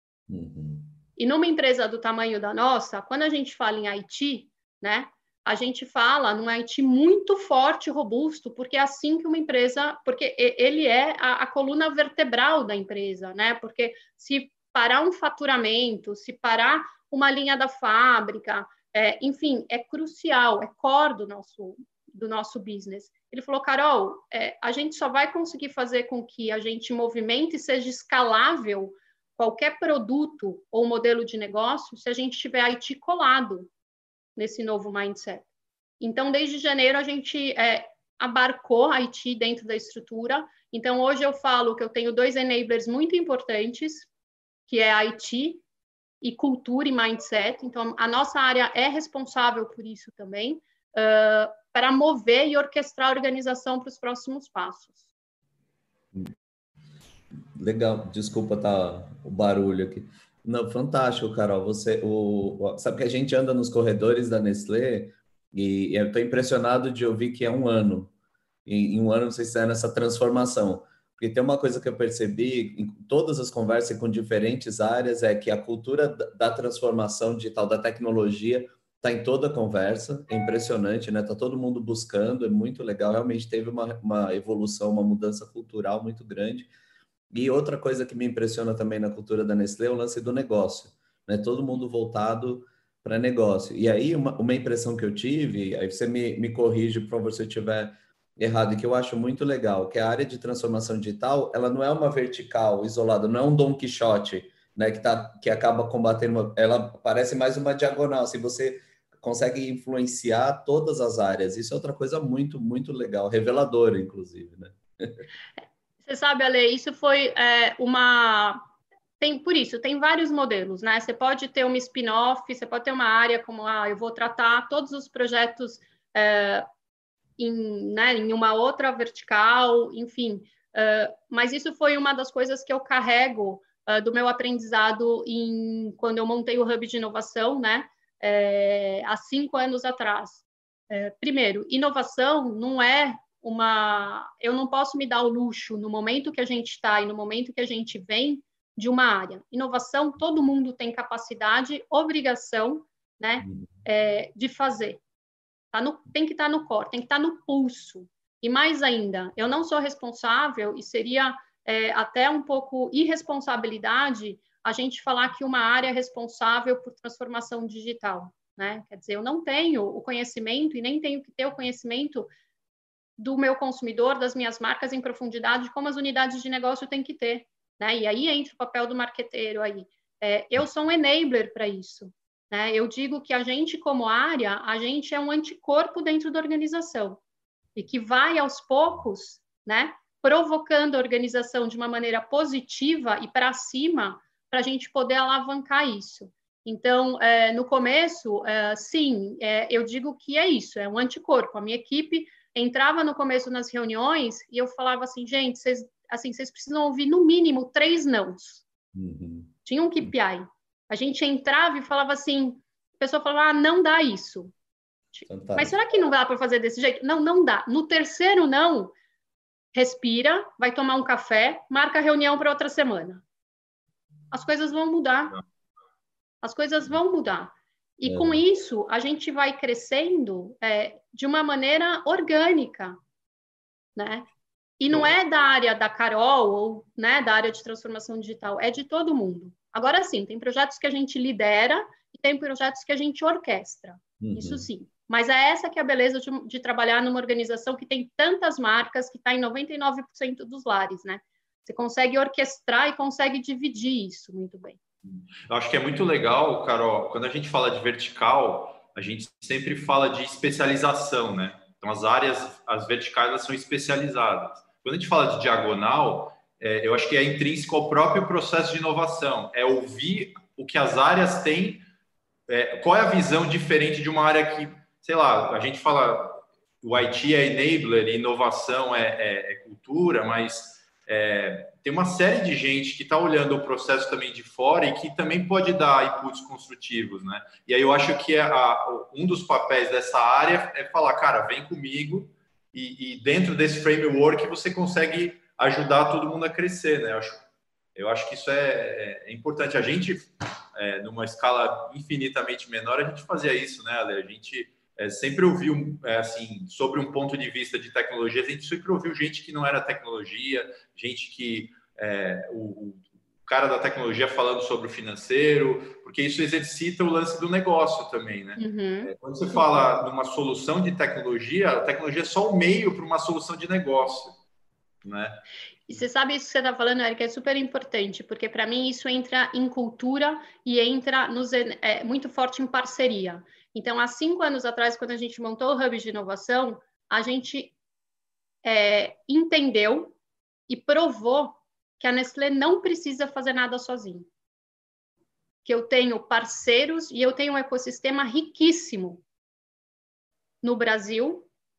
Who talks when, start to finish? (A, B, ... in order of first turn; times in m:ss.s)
0:00.3-0:01.0 A
0:01.2-0:33.7 B
0:34.4-0:35.5 B
0:36.0-0:44.1 B
0:44.7-0:45.6 B
0:46.2-0:55.0 B
0:57.6-1:08.1 A
1:08.7-1:26.7 A
1:27.3-1:55.2 A
1:56.0-1:58.6 B
1:59.2-2:06.7 B
2:07.4-2:35.0 B
2:35.7-2:52.3 B
2:53.2-3:07.2 B
3:07.8-3:28.6 B
3:28.9-3:29.5 A
3:29.6-3:34.5 B
3:35.1-3:38.9 B
3:35.3-3:35.8 A
3:39.7-3:43.2 B
3:44.3-3:45.4 B
3:46.4-3:53.0 B
3:48.0-3:48.4 A
3:54.0-3:54.3 B
3:54.8-4:14.8 B
4:04.2-4:04.6 A
4:15.4-4:31.8 C
4:32.5-4:57.4 C
4:58.0-5:24.4 C
5:18.6-5:19.1 B
5:25.0-5:25.4 C
5:25.9-5:37.7 B
5:38.6-5:40.2 B
5:40.7-5:44.3 B
5:45.6-5:49.2 B
5:50.6-5:51.5 B